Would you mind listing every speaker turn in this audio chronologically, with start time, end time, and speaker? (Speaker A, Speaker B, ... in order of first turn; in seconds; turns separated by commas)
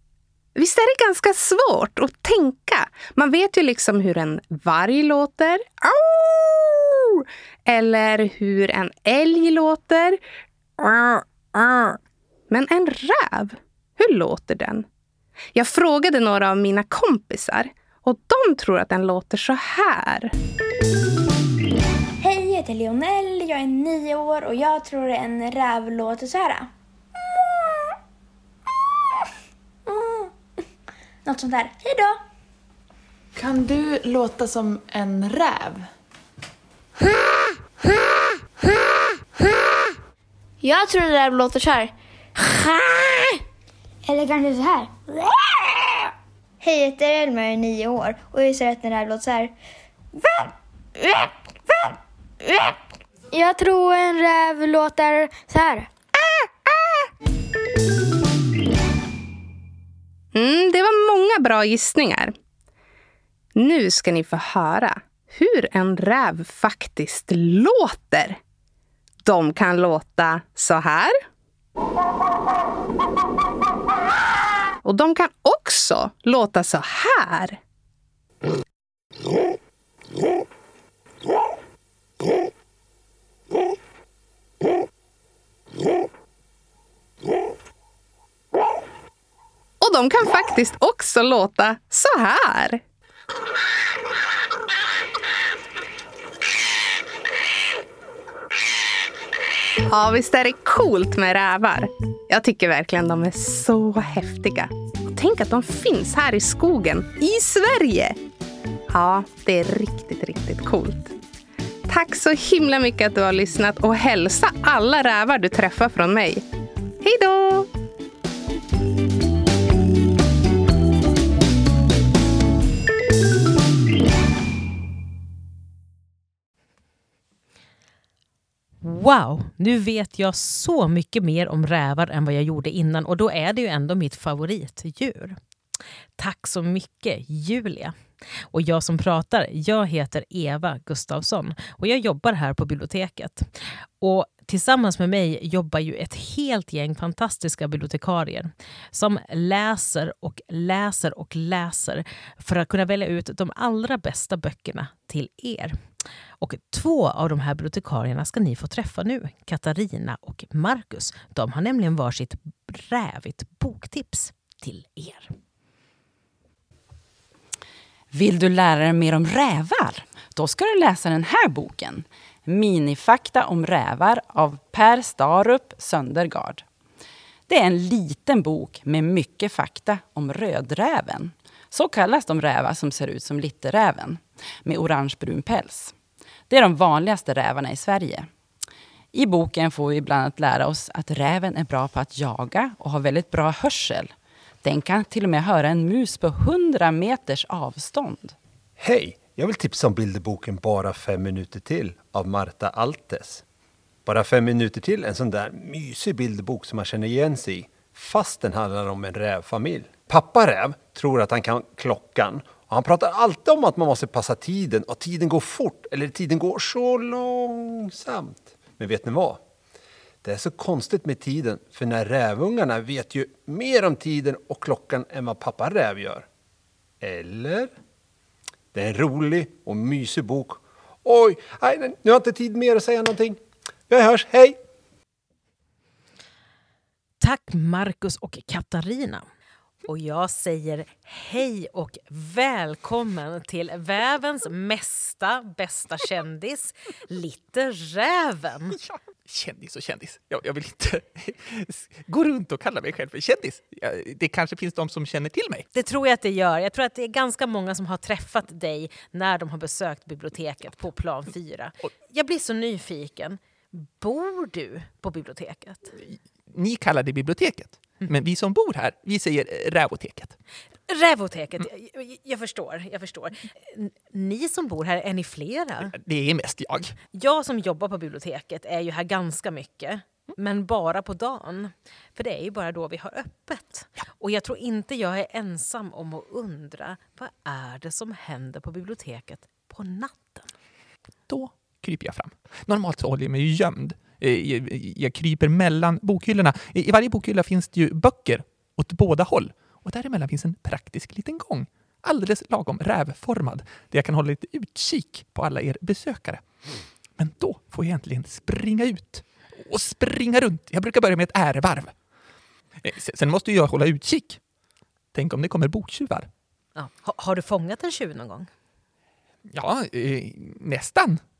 Speaker A: 0.6-10.2, Speaker A: 10.8-14.9, Speaker A: 15.5-20.3, Speaker B: 22.2-26.7, Speaker B: 29.9-30.3, Speaker B: 31.3-32.2, Speaker C: 33.4-35.9, Speaker B: 40.6-43.4, Speaker B: 44.0-46.0, Speaker B: 46.6-49.5, Speaker B: 51.0-51.3, Speaker B: 52.4-52.8, Speaker B: 53.3-55.9, Speaker A: 56.2-57.0, Speaker A: 60.3-62.3, Speaker A: 63.5-68.4, Speaker A: 69.2-71.2, Speaker A: 74.8-77.6, Speaker A: 89.8-92.8, Speaker A: 99.9-108.2, Speaker A: 108.9-111.2, Speaker A: 111.9-116.5, Speaker A: 117.0-117.7, Speaker D: 128.8-135.4, Speaker D: 136.2-137.9, Speaker D: 138.5-155.8, Speaker D: 156.4-165.3, Speaker E: 168.2-176.6, Speaker E: 177.5-185.9, Speaker E: 186.5-188.3, Speaker E: 189.1-198.3, Speaker F: 198.8-203.4, Speaker F: 204.1-219.4, Speaker F: 220.2-226.3, Speaker F: 227.0-227.7, Speaker F: 228.7-234.6, Speaker D: 237.2-239.3, Speaker D: 239.9-248.8, Speaker G: 248.7-255.7, Speaker D: 255.7-266.0, Speaker G: 266.0-270.4, Speaker D: 270.9-275.9, Speaker G: 275.9-276.9, Speaker D: 277.1-290.5, Speaker G: 291.3-306.4, Speaker G: 307.2-311.9, Speaker G: 312.8-314.4, Speaker G: 315.1-316.3, Speaker D: 316.8-318.5, Speaker G: 319.5-321.2